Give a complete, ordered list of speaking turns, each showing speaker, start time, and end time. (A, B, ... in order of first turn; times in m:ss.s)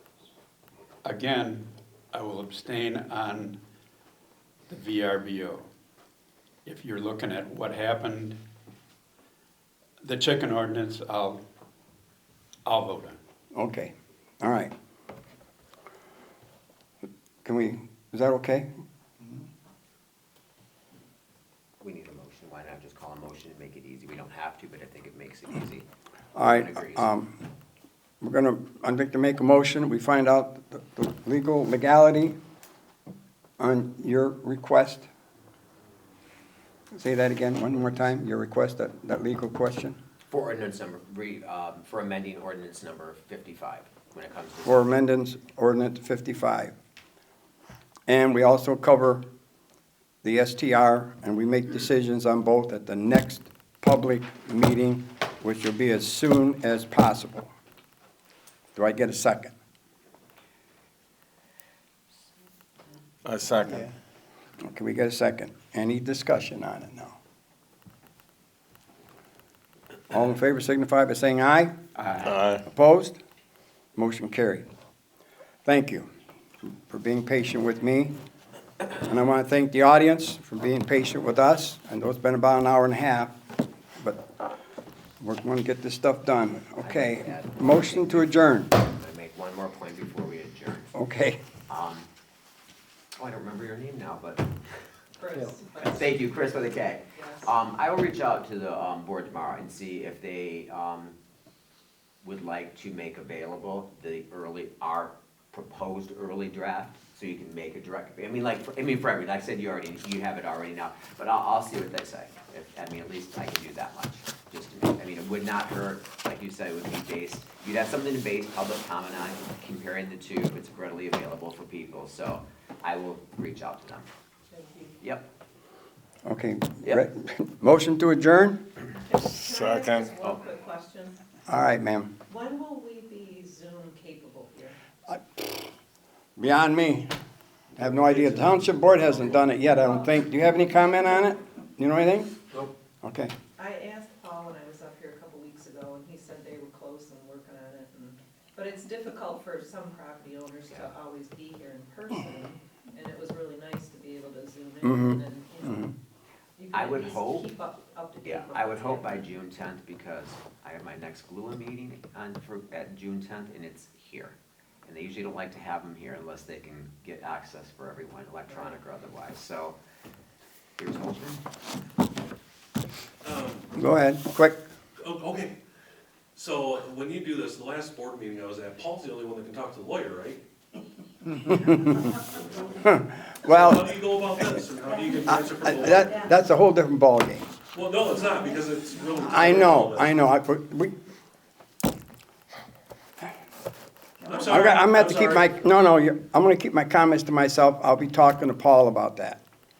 0:01.0-0:03.6 A
0:04.7-0:05.6 A
0:06.6-0:08.4 A
0:10.0-0:11.4 A
0:12.6-0:13.2 A
0:13.5-0:14.7 B
0:17.4-0:18.7 B
0:21.8-0:25.8 C
0:26.3-0:27.3 B
0:26.4-0:27.1 C
0:28.2-0:32.3 B
0:33.6-0:35.0 B
0:37.0-0:40.0 B
0:40.3-0:45.0 C
0:44.6-0:46.7 B
0:48.1-0:49.2 B
0:50.2-0:57.5 B
0:58.7-0:59.5 B
1:03.2-1:03.8 D
1:04.6-1:07.1 B
1:10.1-1:11.7 B
1:11.9-1:12.4 C
1:12.2-1:12.6 D
1:12.6-1:13.2 B
1:14.0-1:14.6 B
1:15.6-1:16.1 B
1:16.6-1:18.1 B
1:19.0-1:23.3 B
1:24.0-1:24.2 B
1:25.2-1:28.7 B
1:26.8-1:30.9 C
1:30.9-1:31.4 B
1:31.7-1:32.0 C
1:33.2-1:34.5 C
1:35.2-1:36.1 E
1:35.8-1:41.2 C
1:37.1-1:37.5 E
1:42.2-2:04.1 C
2:04.5-2:05.0 E
2:05.0-2:05.3 C
2:06.2-2:08.6 B
2:09.0-2:11.2 E
2:09.2-2:10.1 D
2:11.5-2:12.1 B
2:12.3-2:14.8 E
2:16.4-2:17.1 B
2:17.8-2:22.4 B
2:17.8-2:19.3 F
2:23.0-2:23.3 B
2:23.6-2:35.9 E
2:34.8-2:35.9 B
2:36.6-2:39.3 E
2:36.7-2:37.5 C
2:38.2-2:49.8 C
2:50.8-2:51.4 C
2:53.2-2:53.7 F
2:53.8-2:54.6 B
2:55.0-2:55.6 F
2:56.3-3:00.4 F
3:01.4-3:02.0 B
3:02.8-3:03.9 B
3:03.4-3:06.2 F
3:04.8-3:06.3 E
3:05.3-3:07.4 B
3:07.7-3:10.2 F
3:08.2-3:09.2 E
3:09.2-3:10.9 B
3:14.2-3:14.6 E
3:14.3-3:15.6 F
3:14.5-3:19.4 B